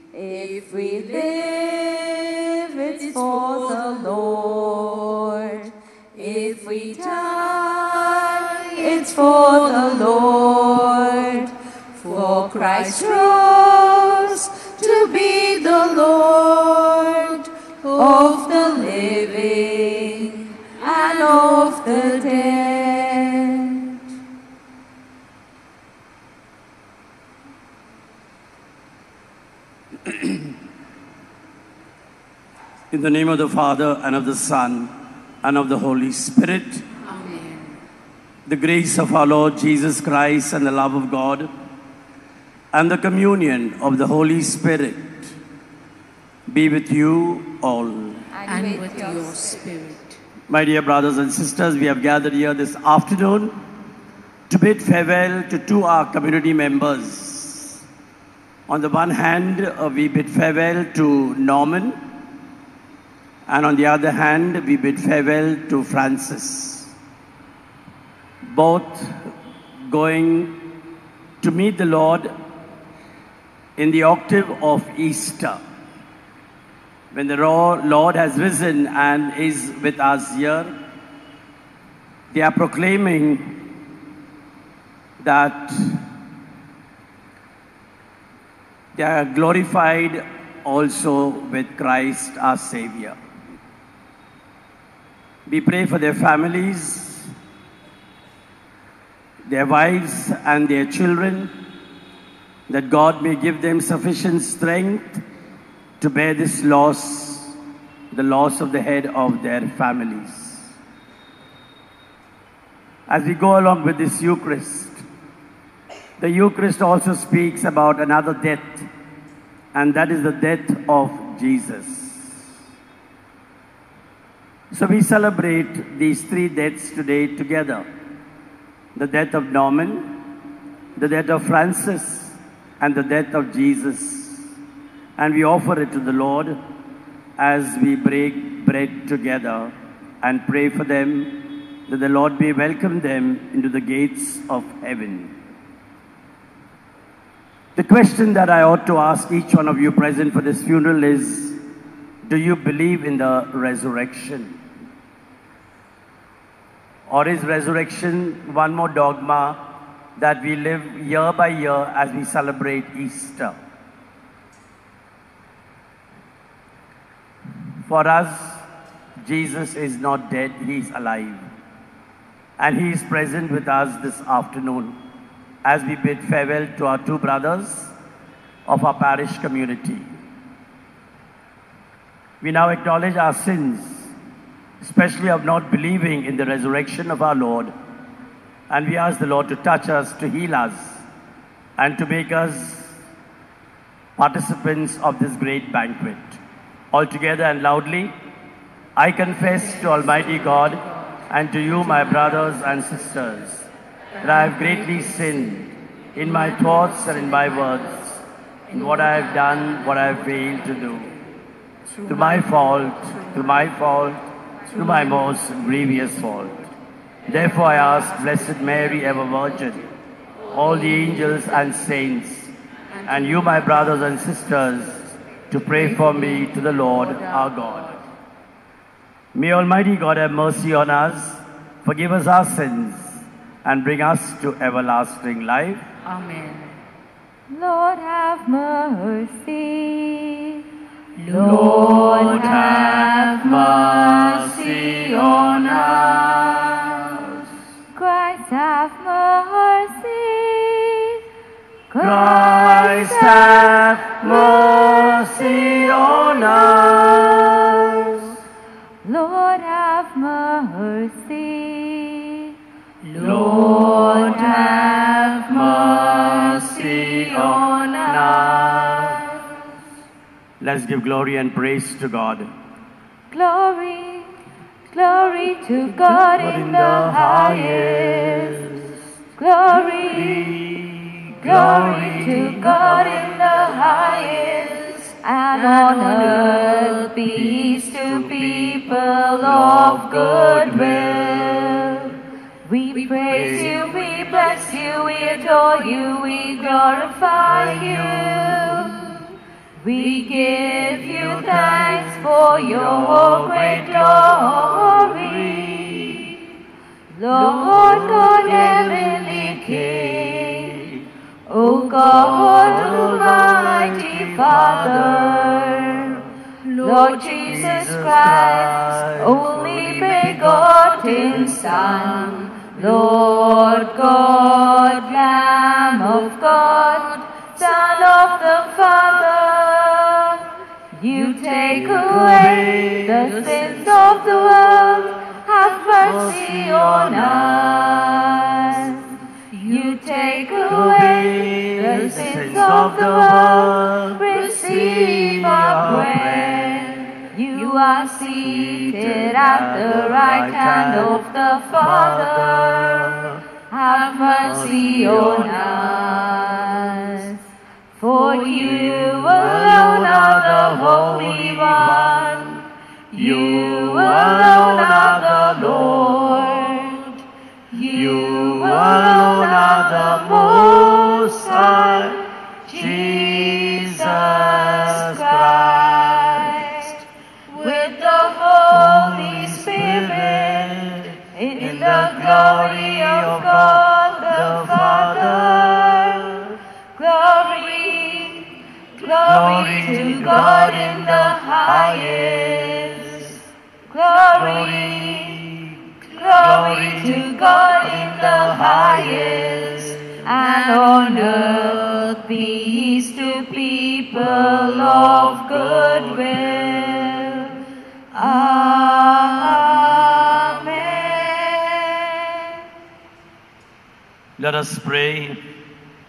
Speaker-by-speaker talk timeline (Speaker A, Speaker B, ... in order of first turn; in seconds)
Speaker A: 0.1-23.5, 48.3-49.7, 237.5-240.4, 241.3-246.3, 247.9-250.9, 251.9-256.8, 259.0-262.3, 263.1-269.3, 273.3-274.3, 274.9-278.6, 279.4-280.6, 281.4-292.0, 292.6-298.9, 299.8-305.8, 307.1-310.7, 311.5-316.0, 316.8-330.4, 330.9-339.0, 339.5-352.9, 353.7-357.4, 358.0-362.4, 363.1-367.0, 367.7-377.0, 377.5-380.7, 381.3-386.2, 386.9-393.2, 393.9-395.4, 396.1-407.5, 408.1-411.9
Speaker B: 32.9-36.9, 38.5-41.5, 42.7-45.4, 46.5-48.2, 50.5-53.5, 54.5-57.8, 58.7-62.0, 63.5-66.9, 68.4-69.3, 69.8-70.5, 71.4-72.3, 73.8-75.6, 77.1-80.7, 82.3-83.6, 85.2-86.0, 88.9-93.2, 95.5-97.3, 99.4-101.5, 102.7-105.2, 106.0-107.5, 108.1-110.7, 113.1-115.0, 116.2-118.9, 119.7-122.4, 124.7-127.8, 128.9-130.1, 130.9-134.5, 135.2-136.6, 137.4-145.4, 147.8-151.6, 152.2-154.6, 157.1-159.6, 160.2-163.6, 167.8-168.7, 169.2-171.5, 172.6-174.9, 175.6-177.9, 178.7-180.1, 182.4-184.1, 184.8-187.7, 188.7-191.0, 191.8-192.9, 194.2-196.4, 196.9-198.1, 198.9-203.7, 204.2-211.1, 212.0-216.7, 217.3-219.9, 220.5-222.5, 223.0-228.0, 229.3-235.8, 241.2-247.4, 252.0-258.3, 263.0-269.2, 270.6-272.5, 275.9-279.0, 279.9-283.8, 285.9-286.6, 287.2-288.8, 289.4-291.8, 293.3-294.0, 297.4-298.9, 300.8-306.3, 307.4-311.1, 312.0-316.2, 316.9-322.4, 331.6-334.1, 336.0-338.0, 338.7-339.0, 340.6-347.2, 348.4-351.2, 351.8-353.4, 354.3-355.7, 358.5-366.8, 367.9-372.2, 372.7-376.5, 378.7-386.5, 389.1-393.4, 394.3-400.2, 404.2-407.5, 409.4-411.0, 414.4-415.4
Speaker C: 37.0-37.8, 48.4-50.2, 204.2-205.6, 211.9-212.5, 236.1-236.7